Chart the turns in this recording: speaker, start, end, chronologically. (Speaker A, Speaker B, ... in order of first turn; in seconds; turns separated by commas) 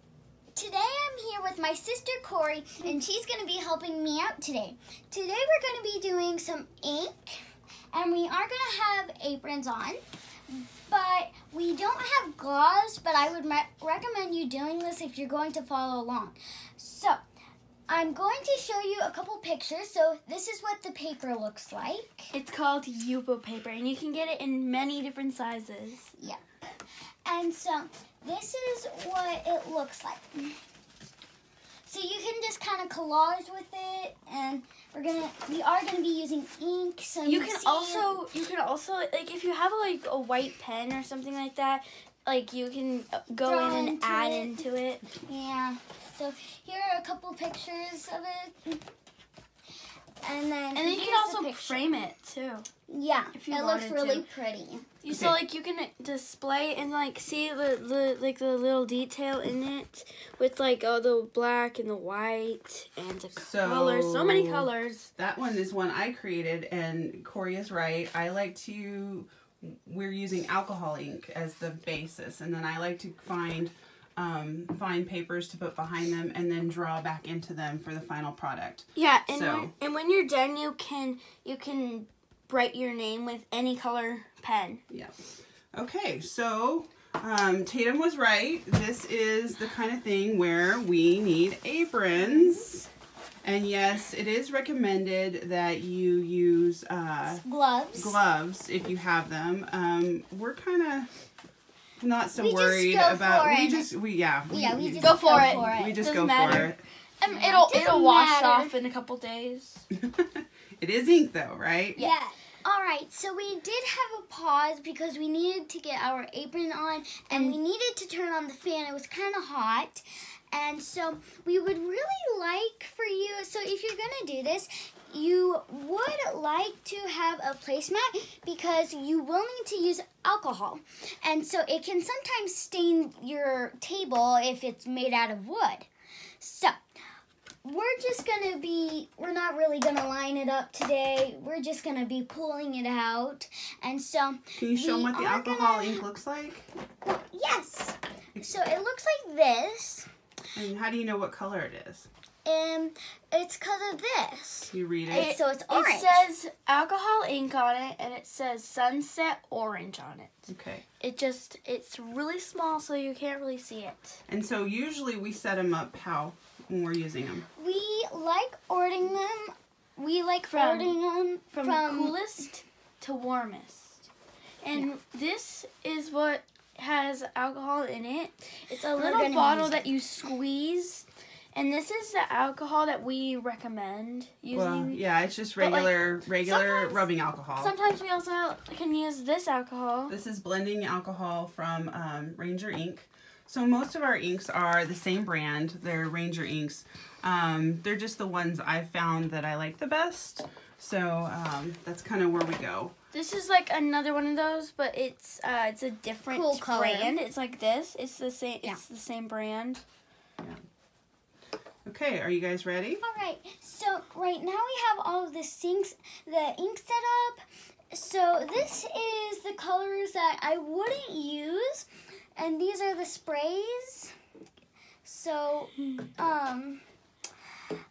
Speaker A: 0.5-17.2, Speaker A: 17.9-22.3, Speaker B: 22.3-26.1, Speaker A: 26.2-30.6, Speaker A: 31.9-38.2, Speaker B: 37.2-45.0, Speaker A: 43.4-44.5, Speaker A: 45.2-48.8, Speaker A: 50.2-51.9, Speaker B: 50.7-52.6, Speaker A: 52.9-54.9, Speaker B: 53.3-54.2, Speaker B: 55.0-65.1, Speaker C: 55.1-55.4, Speaker C: 63.3-79.7, Speaker B: 79.0-84.8, Speaker C: 84.9-92.9, Speaker A: 92.2-92.8, Speaker C: 93.4-97.4, Speaker A: 97.3-98.2, Speaker C: 97.9-101.1, Speaker C: 102.0-106.8, Speaker A: 102.3-103.9, Speaker A: 104.5-106.1, Speaker B: 105.0-109.8, Speaker A: 107.2-108.7, Speaker C: 109.9-112.0, Speaker A: 112.0-135.9, Speaker B: 117.3-117.5, Speaker A: 136.4-136.8, Speaker A: 137.6-146.0, Speaker C: 144.6-146.7, Speaker A: 147.0-150.1, Speaker C: 150.5-152.1, Speaker A: 152.4-156.3, Speaker C: 154.7-155.3, Speaker B: 155.1-164.2, Speaker C: 160.5-160.8, Speaker C: 164.3-167.5, Speaker A: 167.6-172.2, Speaker B: 170.5-170.9, Speaker B: 171.5-174.1, Speaker B: 174.6-185.0, Speaker A: 178.9-179.8, Speaker C: 184.5-187.7, Speaker B: 185.6-187.0, Speaker B: 187.5-190.1, Speaker C: 190.1-202.9, Speaker B: 203.1-209.8, Speaker A: 206.3-207.1, Speaker C: 211.8-213.0, Speaker A: 213.0-217.4, Speaker A: 217.9-224.1, Speaker A: 225.0-226.8